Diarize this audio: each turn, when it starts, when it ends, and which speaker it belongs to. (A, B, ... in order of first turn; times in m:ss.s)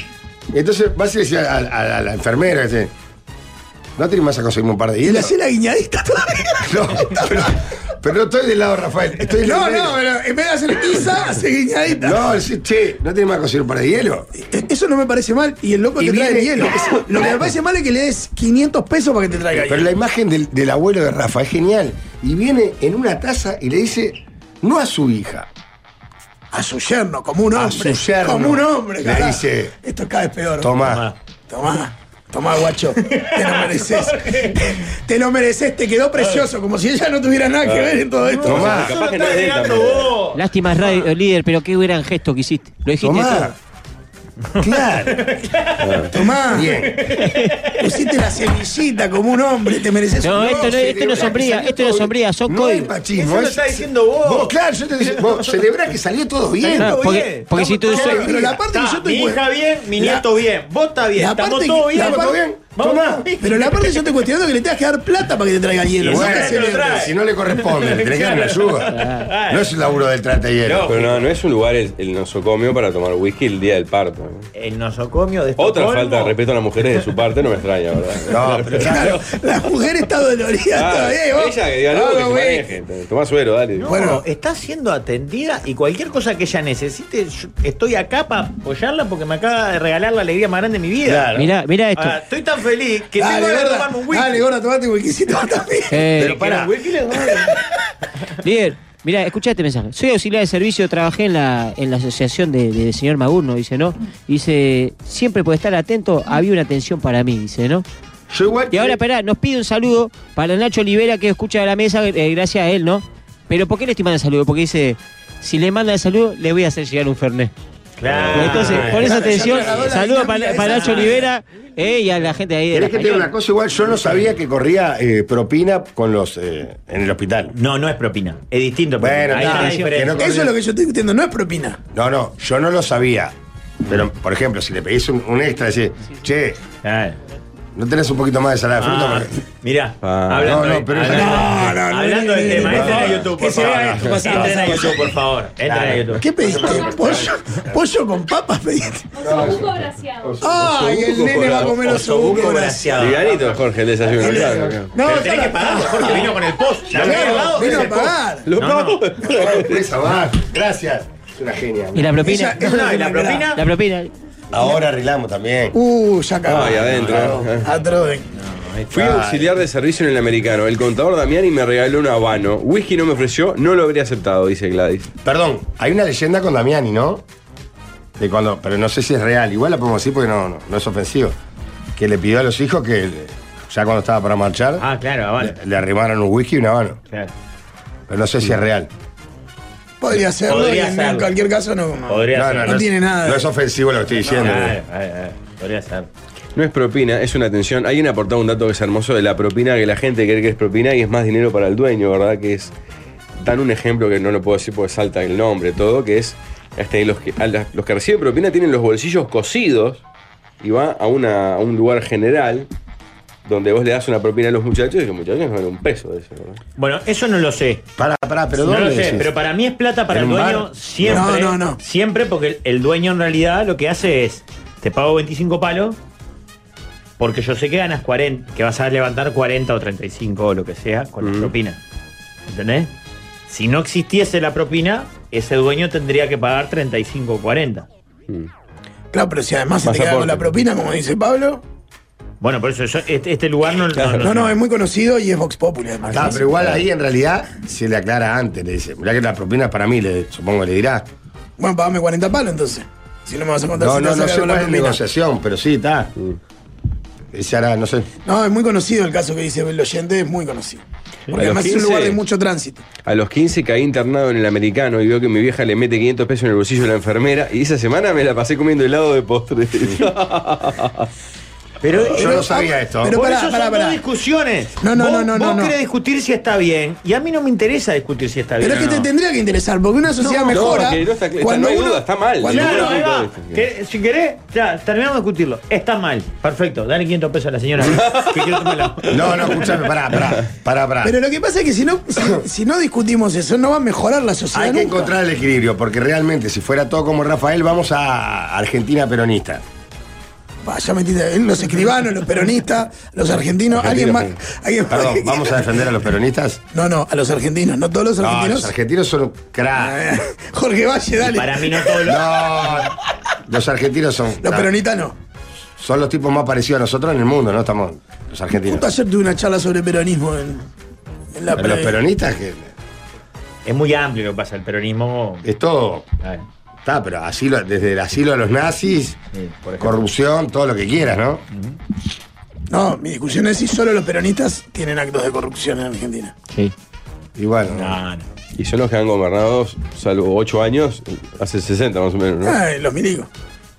0:00.5-0:02.9 A
0:04.0-0:05.3 A
0:05.0-0:07.6 B
0:06.6-0:10.0 A
0:09.4-0:12.2 B
0:12.0-0:14.3 A
0:14.4-0:19.9 B
0:16.0-0:17.4 A
0:19.6-0:25.5 A
0:26.5-0:30.8 B
0:27.5-0:29.7 A
0:30.6-0:31.1 A
0:30.8-0:31.2 C
0:31.5-0:38.8 B
0:33.0-0:34.8 C
0:36.2-0:36.4 C
0:37.6-0:40.2 D
0:38.2-0:41.1 C
0:38.4-0:39.0 A
0:40.4-0:43.5 E
0:43.0-0:43.5 A
0:44.6-0:47.9 C
0:44.6-0:45.2 A
0:45.8-0:46.1 D
0:46.1-0:46.8 B
0:46.5-0:47.2 A
0:47.8-0:51.0 B
0:50.2-0:52.9 E
0:50.3-0:57.0 A
0:50.9-0:51.7 C
0:53.1-0:55.7 C
0:56.6-1:04.2 C
0:56.8-0:58.2 E
0:57.8-0:58.6 A
0:58.0-0:59.4 B
1:00.0-1:00.3 B
1:01.2-1:02.4 B
1:01.9-1:03.3 A
1:03.4-1:07.1 B
1:06.0-1:09.7 C
1:06.0-1:10.9 A
1:09.0-1:09.2 E
1:10.6-1:11.3 C
1:10.9-1:14.5 D
1:14.6-1:16.4 C
1:15.6-1:19.2 D
1:18.3-1:19.2 A
1:18.8-1:22.7 B
1:20.7-1:24.2 D
1:23.8-1:31.4 C
1:23.9-1:24.2 B
1:31.0-1:31.6 A
1:31.3-1:32.2 E
1:32.0-1:34.5 C
1:33.2-1:36.1 B
1:35.9-1:36.4 E
1:36.2-1:36.8 A
1:36.2-1:37.6 C
1:38.4-1:47.9 E
1:48.3-1:49.0 A
1:48.7-1:57.5 E
1:58.0-1:59.5 C
1:58.1-1:59.1 A
1:58.4-2:03.3 E
1:58.9-2:01.3 B
2:00.7-2:01.2 C
2:02.7-2:07.5 A
2:07.5-2:10.4 C
2:09.0-2:10.5 A
2:09.4-2:11.8 B
2:11.9-2:16.6 A
2:16.8-2:17.2 C
2:17.8-2:19.3 A
2:18.8-2:26.2 C
2:20.0-2:20.6 D
2:20.4-2:21.7 A
2:21.0-2:25.0 B
2:22.6-2:27.5 A
2:26.2-2:29.5 B
2:29.2-2:31.6 A
2:30.4-2:33.2 B
2:30.6-2:31.8 D
2:31.8-2:33.6 C
2:33.0-2:34.9 D
2:34.2-2:34.8 A
2:34.2-2:38.5 B
2:35.0-2:38.0 C
2:36.9-2:38.1 A
2:38.4-2:40.0 D
2:38.6-2:39.0 C
2:39.2-2:42.2 A
2:42.0-2:42.6 E
2:42.2-2:43.5 B
2:42.4-2:43.6 C
2:43.5-2:44.1 E
2:44.5-2:45.8 A
2:45.7-2:48.3 B
2:46.4-2:47.7 D
2:46.8-2:47.3 C
2:48.3-2:49.2 C
2:48.9-2:55.1 D
2:49.0-2:49.5 A
2:55.2-2:57.2 A
2:58.2-3:01.4 A
3:02.0-3:04.9 A
3:04.8-3:05.6 C
3:05.4-3:07.0 A
3:08.1-3:08.9 A
3:10.0-3:13.5 B
3:10.5-3:11.3 C
3:12.1-3:12.8 C
3:12.3-3:14.8 A
3:14.1-3:16.1 C
3:16.6-3:22.7 D
3:23.4-3:30.0 D
3:30.6-3:32.7 D
3:33.4-3:36.6 D
3:36.8-3:37.9 C
3:38.0-3:39.3 A
3:38.6-3:46.0 C
3:40.1-3:41.3 A
3:41.1-3:41.8 B
3:47.2-3:51.8 C
3:51.2-3:51.5 D
3:52.5-3:52.9 C
3:53.5-3:57.9 C
3:59.1-4:01.6 B
3:59.8-4:00.6 D
4:02.4-4:04.6 C
4:04.0-4:04.3 D
4:04.2-4:06.5 B
4:06.0-4:11.1 A
4:11.6-4:15.0 B
4:13.8-4:16.1 A
4:17.3-4:18.1 A
4:18.2-4:22.8 B
4:21.3-4:22.2 D
4:23.0-4:31.1 D
4:31.8-4:32.5 C
4:32.0-4:33.2 A
4:32.1-4:34.0 B
4:33.0-4:39.1 C
4:34.8-4:35.8 B
4:38.6-4:42.1 B
4:40.3-4:43.6 D
4:42.4-4:49.7 C
4:42.4-4:42.9 A
4:47.8-4:49.1 D
4:49.1-4:51.2 A
4:51.0-4:55.1 B
4:54.5-4:59.6 A
5:00.6-5:05.7 B
5:03.8-5:04.2 A
5:04.9-5:06.6 A
5:06.7-5:08.7 B
5:08.2-5:10.0 A
5:09.8-5:12.1 B
5:11.2-5:12.3 C
5:12.0-5:12.9 A
5:13.5-5:14.7 A
5:14.4-5:15.2 B
5:15.8-5:18.9 A
5:18.6-5:20.7 B
5:21.3-5:22.0 B
5:21.5-5:22.7 A
5:23.6-5:25.5 C
5:25.4-5:26.1 A
5:26.8-5:29.2 A
5:29.3-5:30.0 C
5:29.8-5:31.4 A
5:32.7-5:36.4 B
5:37.4-5:38.0 A
5:37.7-5:38.2 C
5:38.6-5:42.6 D
5:42.4-5:43.3 B